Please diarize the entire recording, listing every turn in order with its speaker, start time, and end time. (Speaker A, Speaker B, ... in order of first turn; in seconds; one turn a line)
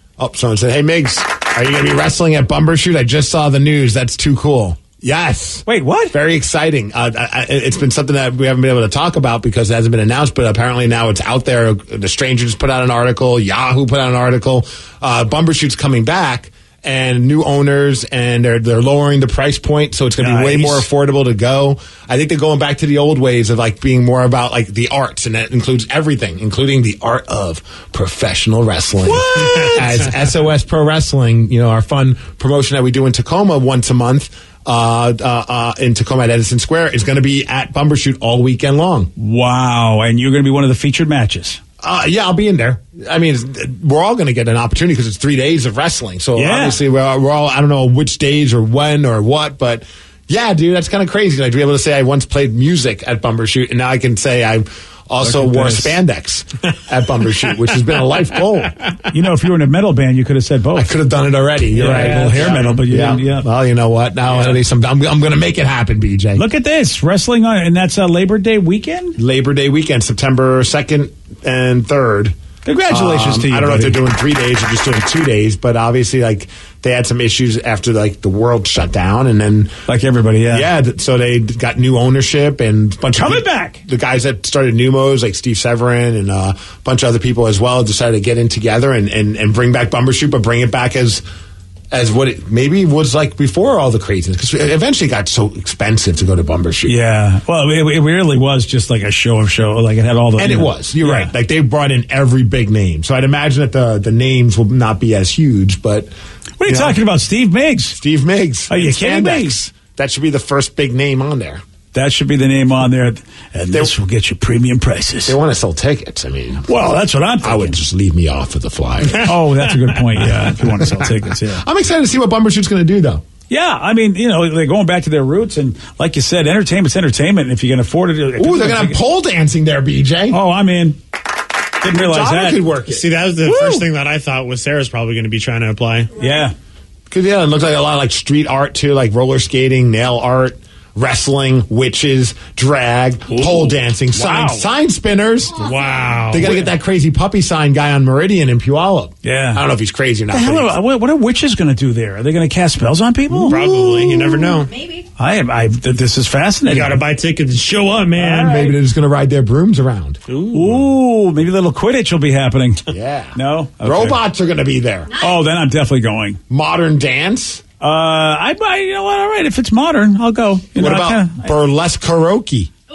Speaker A: 0.2-39.1
Speaker B: 5.7-6.2
Speaker B: 20.2-20.9
Speaker B: 29.0-30.1
Speaker B: 39.2-41.6
Speaker A: 41.8-58.8
Speaker B: 46.4-46.8
Speaker B: 55.2-56.0
Speaker B: 59.1-61.0
Speaker A: 60.8-66.5
Speaker B: 61.7-63.5
Speaker C: 61.8-62.8
Speaker B: 66.4-69.2
Speaker A: 69.2-72.3
Speaker B: 72.7-74.0
Speaker A: 72.9-79.8
Speaker B: 79.9-80.7
Speaker A: 80.5-91.2
Speaker B: 83.1-83.8
Speaker A: 91.9-97.0
Speaker B: 96.9-101.3
Speaker A: 100.4-106.1
Speaker B: 106.6-108.0
Speaker A: 106.7-107.0
Speaker A: 108.0-111.6
Speaker B: 108.7-109.6
Speaker B: 111.9-115.4
Speaker A: 115.2-116.7
Speaker B: 116.7-117.8
Speaker A: 117.4-119.3
Speaker B: 119.2-121.6
Speaker C: 119.7-119.9
Speaker A: 121.6-123.2
Speaker B: 123.5-129.0
Speaker A: 128.4-130.4
Speaker B: 130.3-131.0
Speaker B: 131.8-132.6
Speaker A: 131.8-133.1
Speaker C: 132.9-136.1
Speaker B: 133.4-133.9
Speaker B: 136.2-136.6
Speaker A: 137.1-150.8
Speaker B: 143.3-144.7
Speaker C: 145.6-146.6
Speaker B: 149.2-149.6
Speaker B: 150.3-153.6
Speaker A: 153.3-154.3
Speaker C: 153.4-154.7
Speaker B: 155.2-157.1
Speaker C: 156.7-158.7
Speaker B: 158.2-158.8
Speaker A: 158.3-160.2
Speaker C: 160.3-160.8
Speaker B: 160.5-162.8
Speaker A: 162.9-165.2
Speaker B: 163.3-164.2
Speaker B: 165.2-166.4
Speaker A: 166.5-167.6
Speaker B: 167.8-171.5
Speaker A: 170.8-172.7